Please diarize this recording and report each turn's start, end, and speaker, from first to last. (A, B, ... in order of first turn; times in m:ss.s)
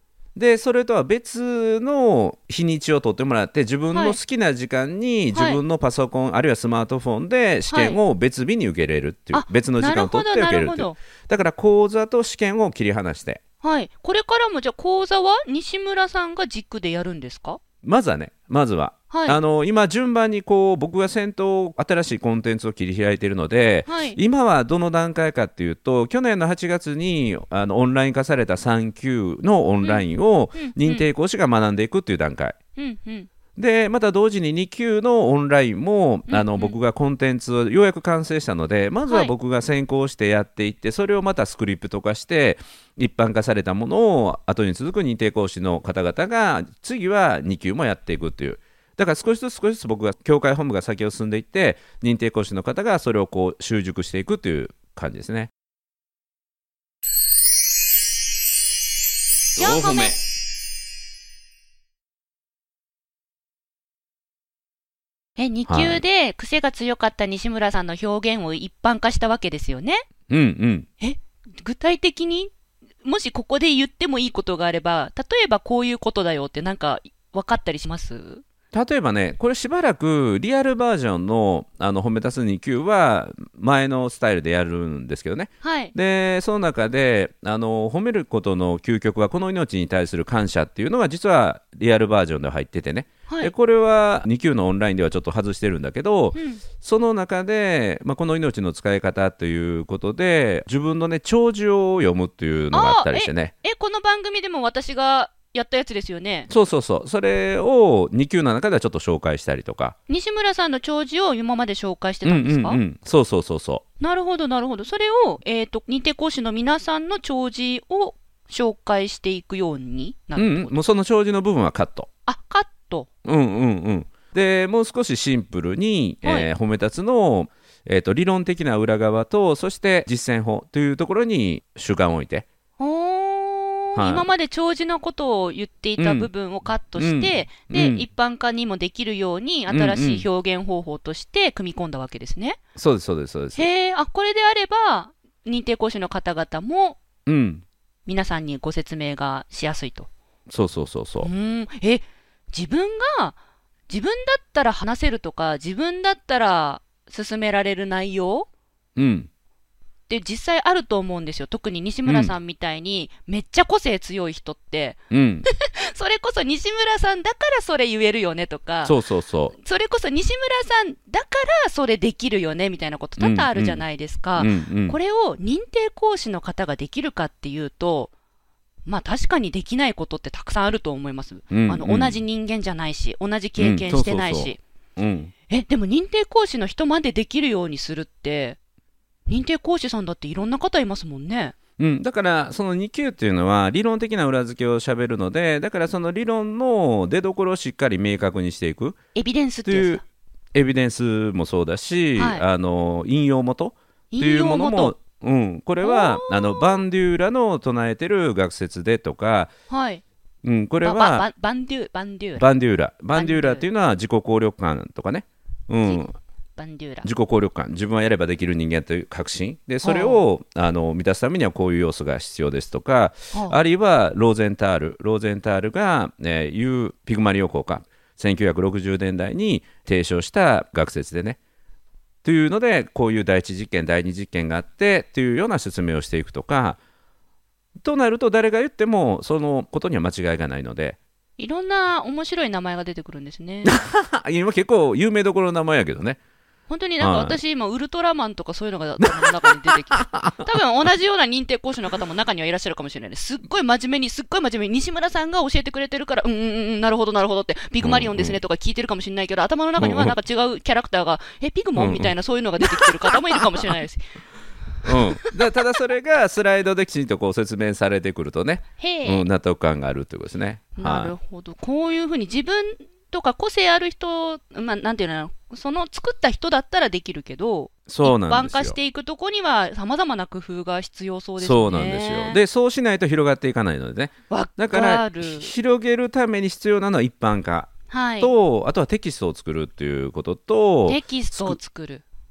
0:00.3-0:13.4 A
0:03.9-0:04.2 B
0:05.3-0:05.6 B
0:07.7-0:08.0 B
0:09.3-0:11.0 B
0:13.6-0:17.6 B
0:17.8-0:32.6 A
0:19.1-0:19.4 B
0:23.8-0:24.2 B
0:29.8-0:31.1 B
0:32.8-0:33.3 B
0:33.6-0:55.5 A
0:36.3-0:36.8 B
0:39.1-0:39.3 B
0:59.6-1:00.1 B
0:59.6-1:00.2 A
1:05.4-1:10.0 B
1:05.7-1:06.0 A
1:10.3-1:10.9 A
1:11.0-1:12.5 B
1:13.0-1:18.4 B
1:18.7-1:43.5 A
1:25.6-1:25.9 B
1:33.3-1:33.5 B
1:36.3-1:36.6 B
1:42.7-1:46.5 B
1:46.5-1:49.9 A
1:50.1-1:52.8 B
1:52.2-1:53.8 A
1:54.0-2:00.7 B
2:00.4-2:02.1 A
2:02.2-2:03.1 B
2:03.2-2:12.4 A
2:12.8-2:22.6 B
2:14.0-2:14.2 A
2:16.0-2:16.3 A
2:17.0-2:18.1 A
2:19.7-2:20.2 A
2:22.8-2:23.7 A
2:23.5-2:27.0 B
2:27.2-2:27.6 A
2:28.0-2:30.1 B
2:30.5-2:31.3 A
2:31.2-2:33.4 B
2:33.9-2:38.5 B
2:39.0-2:39.3 A
2:40.1-2:49.0 B
2:42.0-2:42.3 A
2:45.1-2:45.5 A
2:48.8-2:49.5 A
2:49.6-2:58.1 B
2:53.2-2:53.8 A
2:54.4-2:55.0 A
2:58.8-3:04.6 B
3:01.5-3:02.2 A
3:03.6-3:05.3 A
3:05.5-3:08.6 B
3:09.3-3:11.5 B
3:11.8-3:19.0 A
3:19.1-3:20.0 B
3:19.6-3:20.0 A
3:20.5-3:29.5 A
3:22.2-3:22.4 B
3:24.1-3:24.9 B
3:25.8-3:26.8 B
3:29.7-3:30.0 B
3:30.4-3:31.2 A
3:30.8-3:32.4 B
3:32.4-3:36.1 A
3:33.1-3:33.6 B
3:35.8-3:37.1 B
3:37.0-3:51.4 A
3:39.8-3:40.2 B
3:43.3-3:43.6 B
3:52.2-3:56.8 A
3:57.8-4:01.0 A
4:01.4-4:03.7 B
4:03.6-4:06.2 A
4:06.7-4:24.0 B
4:07.0-4:07.4 A
4:09.9-4:10.5 A
4:17.8-4:18.4 A
4:19.8-4:20.1 A
4:21.8-4:23.4 A
4:24.8-4:25.6 B
4:24.8-4:31.1 A
4:28.8-4:29.2 B
4:30.8-4:42.4 B
4:37.9-4:38.8 A
4:41.4-4:51.6 A
4:44.3-4:45.5 B
4:47.9-4:48.3 B
4:50.8-4:52.0 B